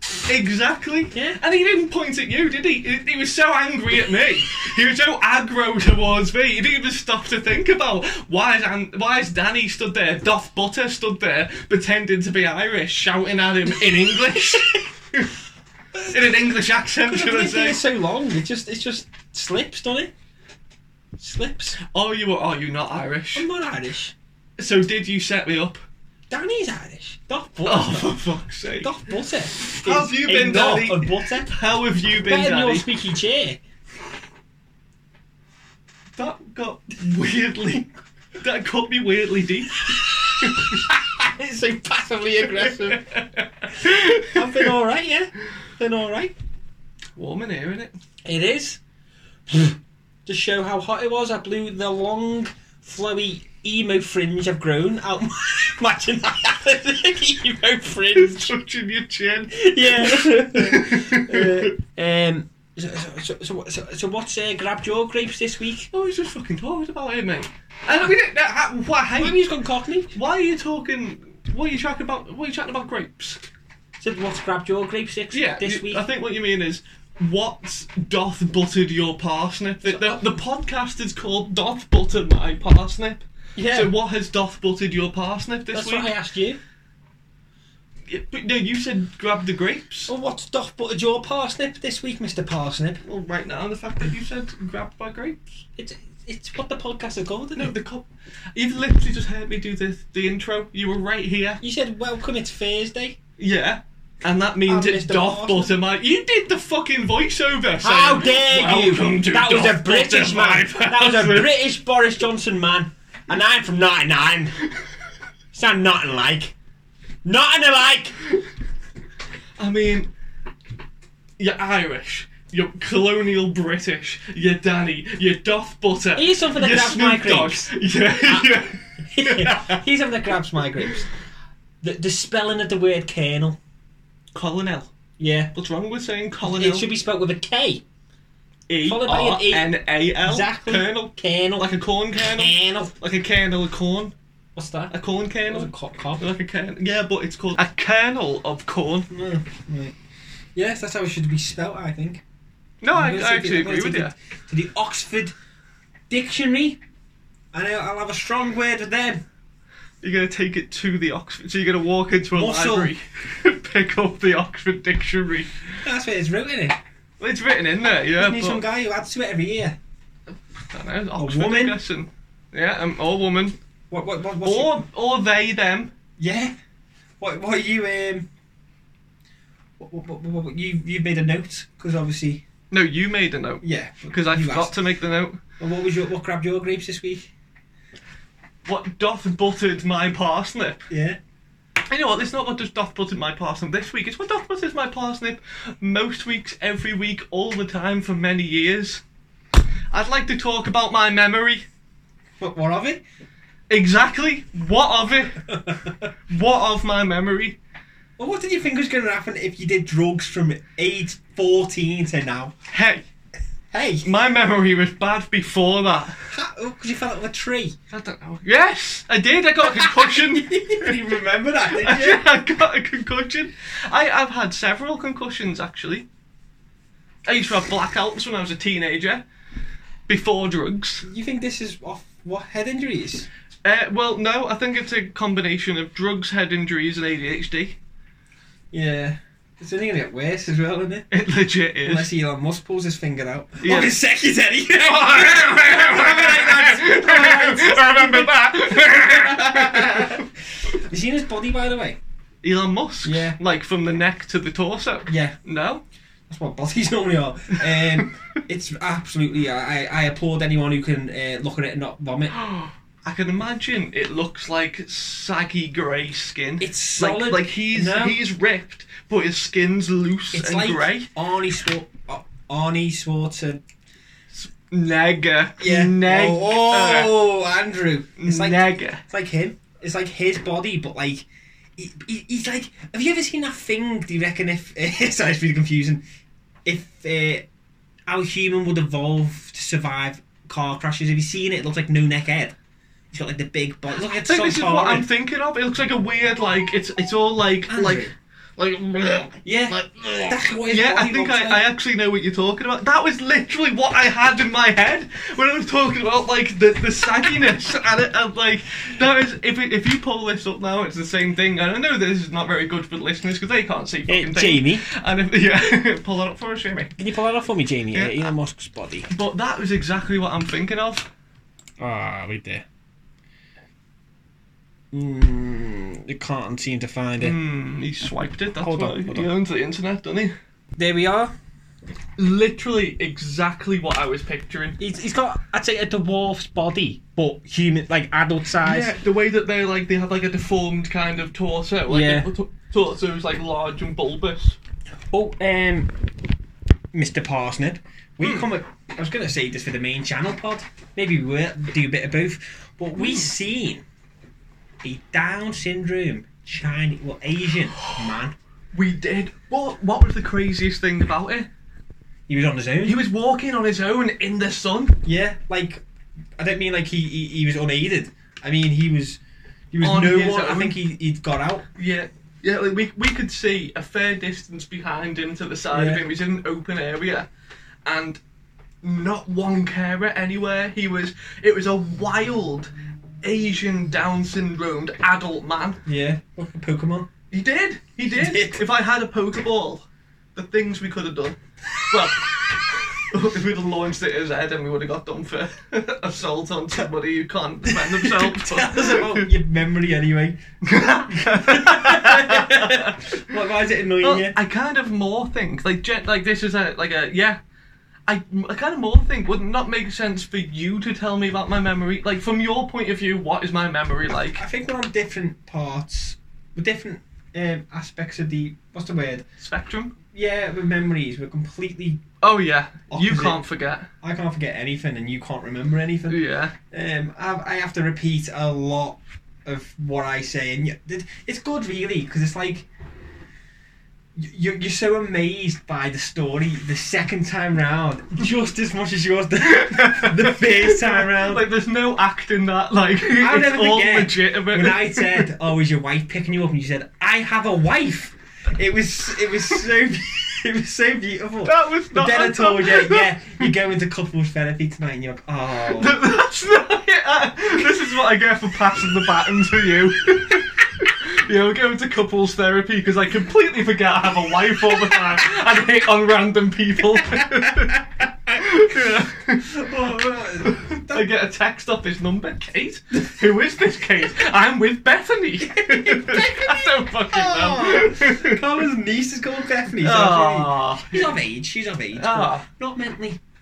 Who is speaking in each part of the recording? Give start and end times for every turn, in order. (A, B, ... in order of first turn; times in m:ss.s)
0:00.2-0:15.3 A
0:01.1-0:01.4 B
0:15.9-0:20.1 B
0:16.1-0:17.8 A
0:21.2-0:21.8 B
0:21.8-0:23.5 A
0:23.3-0:24.1 B
0:24.6-0:25.8 A
0:26.3-0:28.2 B
0:27.6-0:29.0 A
0:28.8-0:31.5 B
0:29.6-0:32.8 A
0:32.2-0:33.6 B
0:36.2-0:40.8 A
0:39.9-0:43.0 B
0:42.6-0:44.7 A
0:43.8-0:46.3 B
0:47.2-0:48.0 A
0:48.2-0:48.8 B
0:49.5-0:58.5 B
0:58.1-1:01.7 A
0:59.5-1:05.9 B
1:05.9-1:09.4 A
1:09.2-1:10.1 B
1:10.1-1:13.4 A
1:14.0-1:16.0 B
1:15.3-1:26.1 A
1:19.8-1:20.2 B
1:23.6-1:24.0 B
1:25.7-1:26.6 B
1:28.1-1:30.1 A
1:30.1-1:33.0 B
1:33.0-1:35.4 A
1:35.8-1:37.7 B
1:37.5-1:41.6 A
1:41.6-1:43.2 B
1:43.4-1:51.5 A
1:44.7-1:45.7 B
1:47.8-1:54.5 B
1:55.5-1:56.5 B
1:57.2-1:58.1 B
1:59.6-2:00.1 A
2:01.4-2:09.8 A
2:06.2-2:07.7 B
2:08.2-2:11.1 B
2:11.8-2:13.6 B
2:14.3-2:14.9 A
2:15.2-2:15.5 B
2:15.5-2:16.9 A
2:16.4-2:17.8 B
2:18.7-2:24.1 A
2:18.8-2:22.9 B
2:24.6-2:24.9 B
2:24.9-2:29.1 A
2:25.5-2:26.3 B
2:29.1-2:30.0 B
2:30.5-2:32.2 B
2:32.8-2:34.1 A
2:32.9-2:35.3 B
2:36.1-2:36.8 B
2:37.5-2:39.2 B
2:40.0-2:45.5 A
2:42.3-2:42.9 B
2:45.8-2:46.8 B
2:47.2-2:48.6 A
2:48.2-2:49.8 B
2:50.7-2:53.6 A
2:51.2-2:51.8 B
2:53.9-2:54.8 B
2:54.4-2:55.9 A
2:56.2-2:56.5 B
2:57.2-2:58.3 B
2:59.8-3:02.4 B
3:02.7-3:05.4 A
3:03.6-3:04.8 B
3:05.6-3:07.3 B
3:08.6-3:10.8 A
3:10.9-3:11.2 B
3:11.9-3:19.0 A
3:19.9-3:21.7 A
3:22.4-3:23.0 B
3:23.7-3:25.5 A
3:25.5-3:26.1 B
3:26.3-3:27.6 A
3:28.2-3:32.5 B
3:32.7-3:33.0 A
3:33.7-3:34.1 B
3:34.0-3:36.2 A
3:36.3-3:37.7 B
3:37.9-3:41.0 A
3:39.6-3:42.2 B
3:41.7-3:46.0 A
3:47.2-3:49.2 A
3:50.1-3:51.0 A
3:51.0-3:53.3 B
3:53.6-3:57.8 A
3:58.7-4:01.1 B
4:01.1-4:02.1 A
4:01.8-4:12.0 B
4:03.6-4:04.0 A
4:05.0-4:10.3 A
4:12.4-4:15.8 A
4:13.0-4:13.4 B
4:15.1-4:15.4 B
4:16.3-4:22.4 B
4:17.7-4:18.1 A
4:22.3-4:31.1 A
4:26.6-4:28.2 B
4:30.3-4:33.6 B
4:34.3-4:37.1 A
4:35.6-4:41.2 B
4:38.2-4:39.0 A
4:41.8-4:46.0 B
4:46.6-4:47.5 B
4:48.1-4:52.5 B
4:53.1-4:55.1 B
4:54.0-5:17.0 A
4:57.7-4:58.1 B
4:59.4-5:01.7 B
5:14.1-5:14.8 B
5:17.0-5:19.1 B
5:17.9-5:18.3 A
5:19.1-5:21.1 A
5:21.8-5:22.6 B
5:24.9-5:27.4 B
5:27.2-5:30.3 A
5:28.6-5:29.3 B
5:30.8-5:31.3 B
5:32.2-5:34.8 A
5:34.8-5:38.9 B
5:38.6-5:44.6 A
5:41.9-5:42.3 B
5:45.1-5:45.9 B
5:46.9-5:53.8 B
5:53.0-5:53.3 A
5:54.8-5:58.4 B
5:57.8-5:58.0 A
5:58.7-6:01.5 A
6:02.3-6:03.0 B
6:02.8-6:05.0 A
6:05.0-6:05.8 B
6:06.4-6:09.2 B
6:09.7-6:11.6 B
6:09.8-6:10.8 A
6:11.8-6:17.3 A
6:15.7-6:16.0 B
6:17.8-6:18.2 A
6:18.8-6:25.8 A
6:25.9-6:27.1 B
6:27.3-6:39.3 A
6:28.1-6:28.6 B
6:37.6-6:40.4 B
6:40.6-6:43.2 A
6:41.1-6:44.4 B
6:44.0-6:47.4 A
6:48.1-6:54.4 A
6:54.4-6:59.2 B
6:59.4-6:59.9 A
7:00.1-7:02.0 B
7:02.2-7:03.9 A
7:02.9-7:03.4 B
7:04.0-7:12.7 B
7:06.1-7:06.5 A
7:14.2-7:21.4 B
7:19.4-7:25.3 A
7:23.1-7:36.0 B
7:31.4-7:33.1 A
7:35.7-7:49.6 A
7:47.1-7:48.4 B
7:49.5-7:51.0 B
7:50.4-7:58.4 A
7:55.4-8:03.2 B
7:59.8-8:01.2 A
8:01.9-8:02.4 A